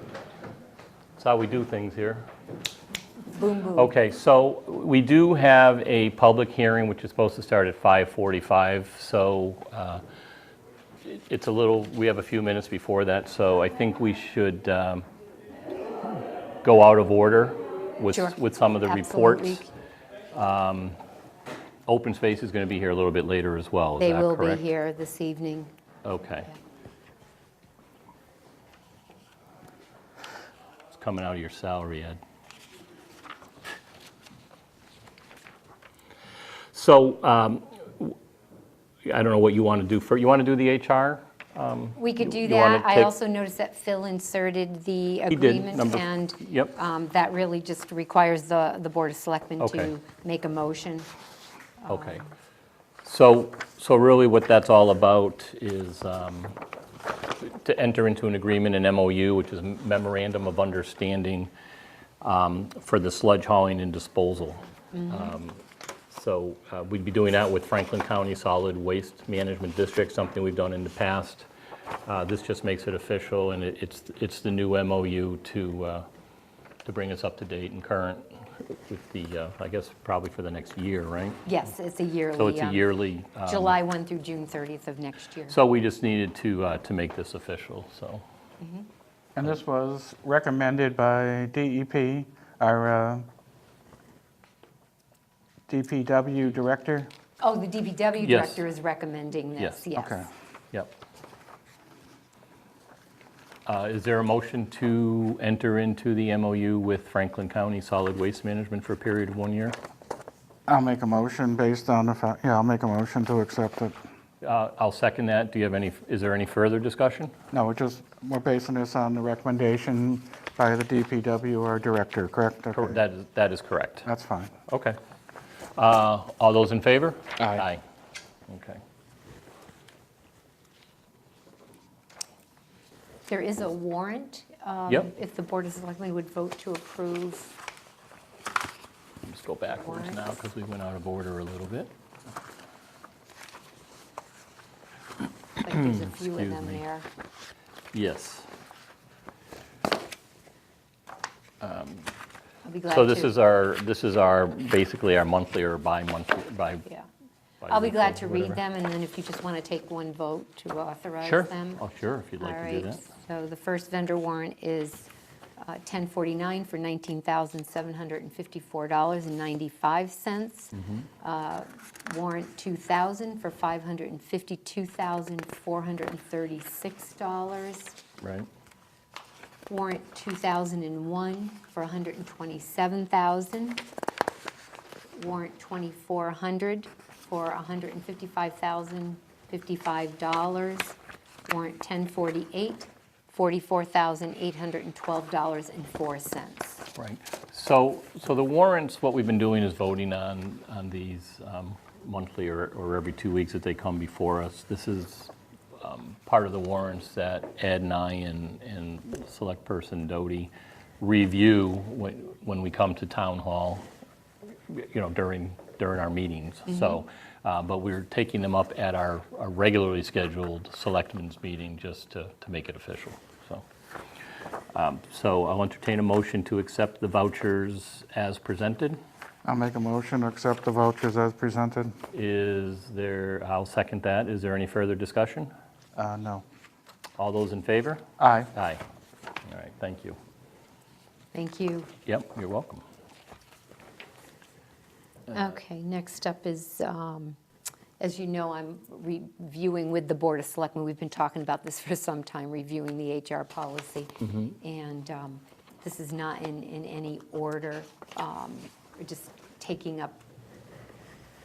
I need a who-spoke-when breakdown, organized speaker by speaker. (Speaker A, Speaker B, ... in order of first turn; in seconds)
Speaker A: 1.2-2.2, 3.7-10.0, 11.0-15.1, 16.6-19.6, 20.3-20.9, 21.9-24.6, 26.0-26.5, 30.9-32.2, 36.7-38.1, 39.0-43.1, 45.3-46.7, 49.6-49.9, 51.9-52.2, 53.0-56.5, 57.4-61.5, 62.2-71.5, 72.1-76.0, 76.8-81.5, 82.3-83.8, 85.5-88.2, 98.2-98.7, 99.6-99.8, 103.7-109.8, 114.4-117.3, 122.7-124.1, 124.7-125.0, 125.8-127.8, 128.5-128.8, 139.2-141.9, 145.6-146.8, 147.9-148.5, 151.6-152.1, 152.9-156.8, 157.6-158.6, 161.2-163.0, 170.8-171.0, 178.2-178.5, 196.9-213.8, 214.7-223.6, 224.7-229.0, 232.1-235.5, 237.2-238.8, 239.4-240.2, 242.1-242.8, 254.2-254.5
Speaker B: 3.3-3.9, 18.1-19.7, 24.0-25.7, 42.0-51.1, 51.8-52.3, 64.9-65.4, 81.4-82.9, 83.4-85.6, 88.6-88.9, 97.4-100.3, 133.3-137.5, 139.8-140.2, 145.6-147.1, 152.6-153.3, 157.7-161.8, 162.4-178.0, 179.7-183.8, 185.1-191.0, 191.5-196.8, 241.3-241.9, 245.3-247.4, 248.0-260.2
Speaker C: 89.3-93.3, 95.7-97.1, 100.0-100.3, 110.7-114.0, 117.5-123.0, 124.0-124.5, 127.4-127.6, 229.4-231.9, 235.9-236.4, 238.2-238.5